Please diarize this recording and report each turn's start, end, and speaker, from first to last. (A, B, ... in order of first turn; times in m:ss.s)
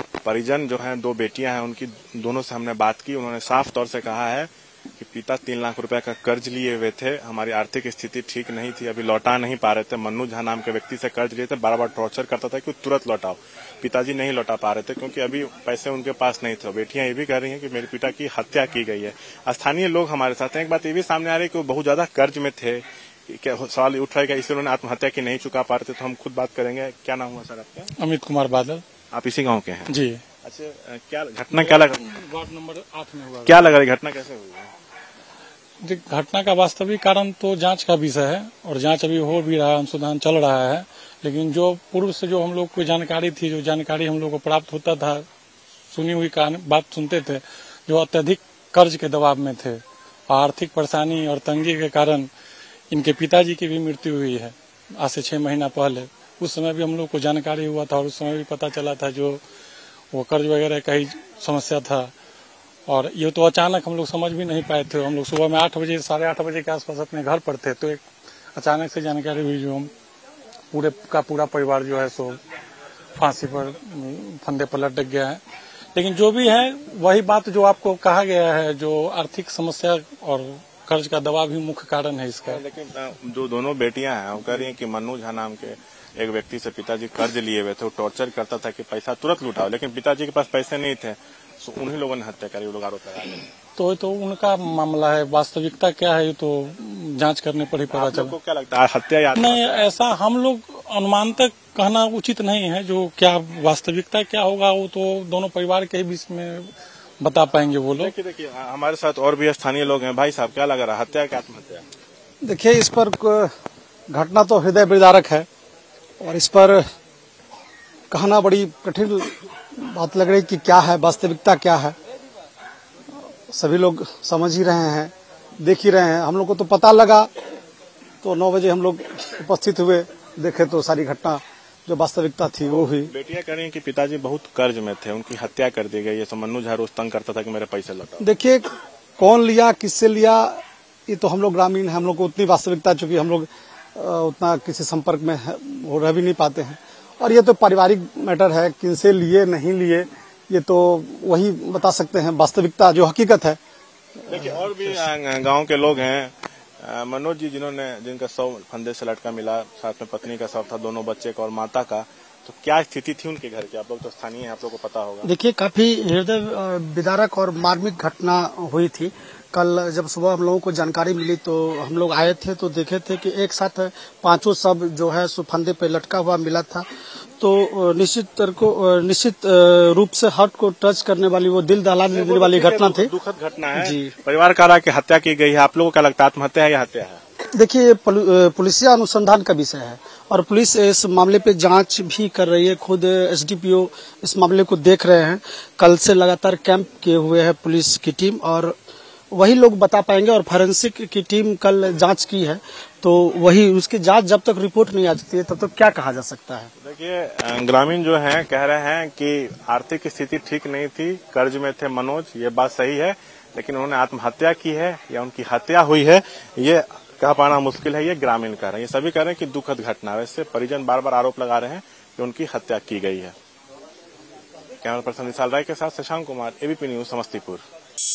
0:00.2-0:04.5 A
0:05.0-0:27.9 A
0:28.0-0:28.8 B
0:29.1-0:32.0 A
0:29.9-0:30.2 B
0:31.5-0:33.8 B
0:33.4-0:34.7 A
0:35.8-0:45.2 B
0:45.9-0:52.3 B
0:52.9-0:59.4 B
1:00.1-1:02.1 B
1:02.9-1:08.0 B
1:08.5-1:09.9 B
1:10.7-1:12.4 B
1:13.2-1:15.4 B
1:15.9-1:22.6 B
1:22.5-1:33.4 A
1:33.8-1:38.4 B
1:37.9-1:39.9 A
1:39.4-1:48.1 B
1:48.0-1:51.8 A
1:52.4-1:53.5 C
1:54.1-1:55.5 C
1:56.2-1:56.8 C
1:58.1-2:01.9 C
2:03.5-2:07.3 C
2:08.2-2:13.1 C
2:12.7-2:18.3 A
2:18.2-2:18.7 C
2:19.2-2:33.6 C
2:34.2-2:34.7 C
2:34.3-2:45.3 A
2:45.2-2:56.8 C
2:57.4-3:03.1 C
3:02.1-3:07.2 A
3:03.7-3:04.1 C
3:07.5-3:18.8 C
3:19.3-3:26.7 C
3:26.8-3:43.3 A
3:44.8-3:47.6 A